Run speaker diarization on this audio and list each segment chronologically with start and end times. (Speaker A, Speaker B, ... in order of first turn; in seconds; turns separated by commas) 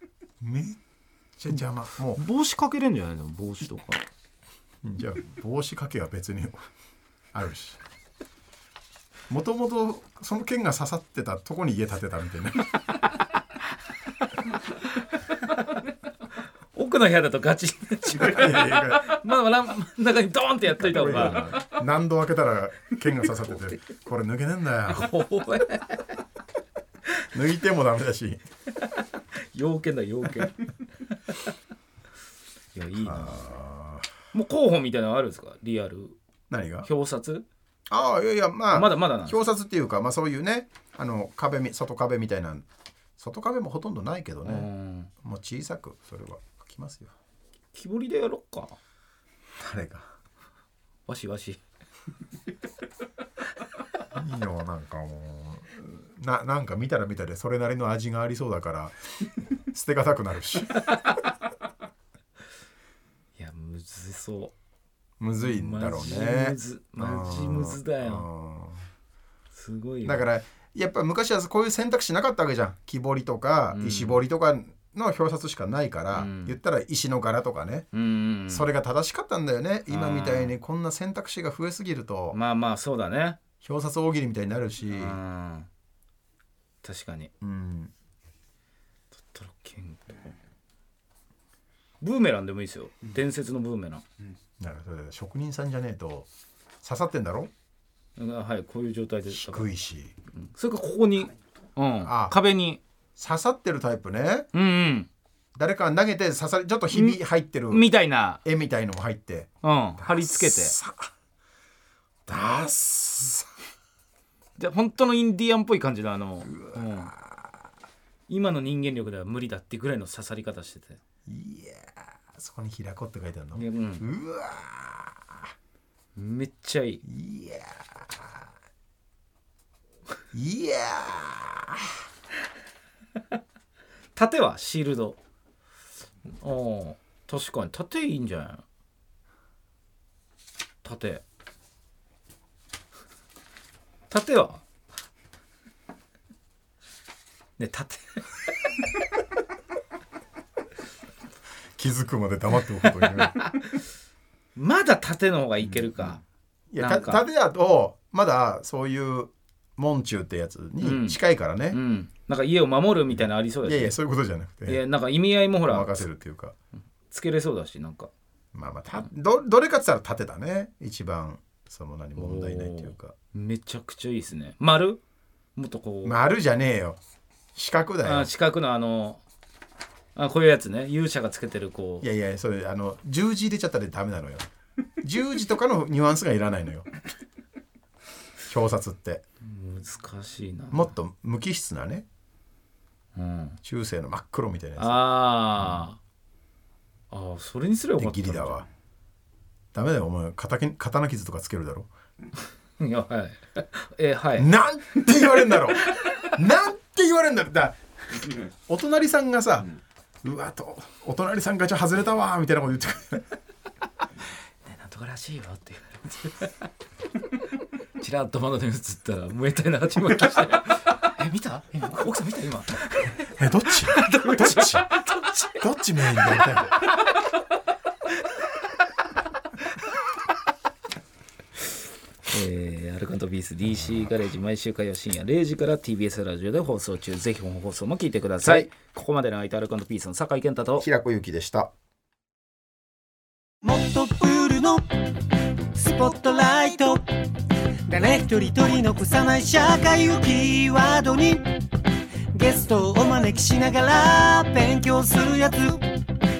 Speaker A: 0.4-0.8, Speaker A: 1.4-2.2, Speaker B: 2.1-4.0, Speaker A: 4.8-6.6, Speaker A: 7.3-7.8, Speaker A: 9.3-12.8, Speaker B: 15.3-15.8, Speaker B: 16.7-21.7, Speaker A: 18.1-19.1, Speaker A: 20.8-25.2, Speaker B: 24.9-26.2, Speaker A: 27.3-28.4, Speaker B: 28.8-31.4, Speaker B: 32.7-33.5, Speaker A: 33.0-34.1, Speaker B: 34.3-36.1, Speaker A: 36.5-36.9, Speaker B: 36.8-37.5, Speaker A: 37.9-42.6, Speaker B: 38.7-39.4, Speaker A: 43.2-44.7, Speaker B: 44.4-45.1, Speaker A: 45.2-47.1, Speaker B: 47.7-48.8, Speaker A: 49.6-50.1, Speaker B: 51.1-51.6, Speaker A: 54.1-60.8, Speaker B: 63.4-64.5, Speaker A: 65.2-68.8, Speaker B: 65.4-68.2, Speaker B: 69.5-70.2, Speaker A: 70.0-77.9, Speaker B: 73.7-74.2, Speaker B: 76.1-76.5, Speaker B: 77.9-78.7, Speaker A: 78.5-82.4, Speaker B: 79.9-80.5, Speaker B: 82.3-83.4, Speaker A: 83.6-85.2, Speaker B: 84.9-85.7, Speaker B: 86.8-87.3, Speaker A: 87.4-87.9, Speaker B: 89.1-90.3, Speaker B: 92.0-94.0, Speaker A: 94.6-96.3, Speaker A: 96.8-97.5, Speaker B: 98.2-99.7, Speaker A: 99.3-100.1, Speaker B: 100.3-102.8, Speaker A: 102.0-102.4, Speaker A: 103.2-104.5, Speaker B: 104.5-105.1, Speaker A: 105.5-107.8, Speaker B: 106.9-107.2, Speaker B: 107.7-108.4, Speaker A: 108.4-111.1, Speaker B: 109.6-110.7, Speaker A: 112.3-113.5, Speaker B: 114.6-117.1, Speaker A: 116.4-117.5, Speaker B: 118.3-121.0, Speaker A: 121.3-125.5, Speaker B: 123.5-124.0, Speaker B: 126.2-127.0, Speaker A: 127.0-128.4, Speaker A: 130.3-132.0, Speaker B: 134.2-135.2, Speaker B: 136.4-138.6, Speaker B: 140.8-141.2, Speaker B: 144.1-144.6, Speaker B: 147.6-148.3, Speaker A: 151.8-153.6, Speaker B: 154.5-156.2, Speaker A: 156.7-161.8, Speaker B: 156.8-157.2, Speaker B: 160.8-161.2, Speaker B: 161.7-163.9, Speaker A: 163.6-164.8, Speaker B: 164.7-166.0, Speaker A: 165.6-166.5, Speaker B: 167.1-168.1, Speaker A: 168.5-173.1, Speaker B: 172.2-175.0, Speaker B: 175.6-176.2, Speaker A: 176.0-177.0, Speaker A: 177.5-178.3, Speaker B: 178.0-179.2, Speaker B: 180.2-182.1, Speaker A: 182.0-184.5, Speaker A: 185.0-186.9, Speaker A: 188.4-189.2, Speaker B: 189.4-190.9, Speaker A: 190.7-192.1, Speaker B: 193.1-193.6, Speaker A: 193.6-195.0, Speaker B: 194.8-196.0, Speaker B: 197.1-198.6, Speaker A: 198.0-198.7, Speaker A: 199.7-201.9, Speaker B: 202.8-204.5, Speaker A: 204.4-213.3, Speaker B: 205.9-206.2, Speaker B: 214.7-216.7, Speaker B: 218.0-223.3, Speaker A: 223.3-226.9, Speaker B: 223.9-225.5, Speaker B: 226.1-227.2, Speaker B: 232.3-240.8, Speaker A: 238.4-238.7, Speaker A: 240.8-241.7, Speaker C: 243.6-245.0, Speaker C: 245.7-247.0, Speaker C: 247.8-251.5, Speaker C: 252.3-255.9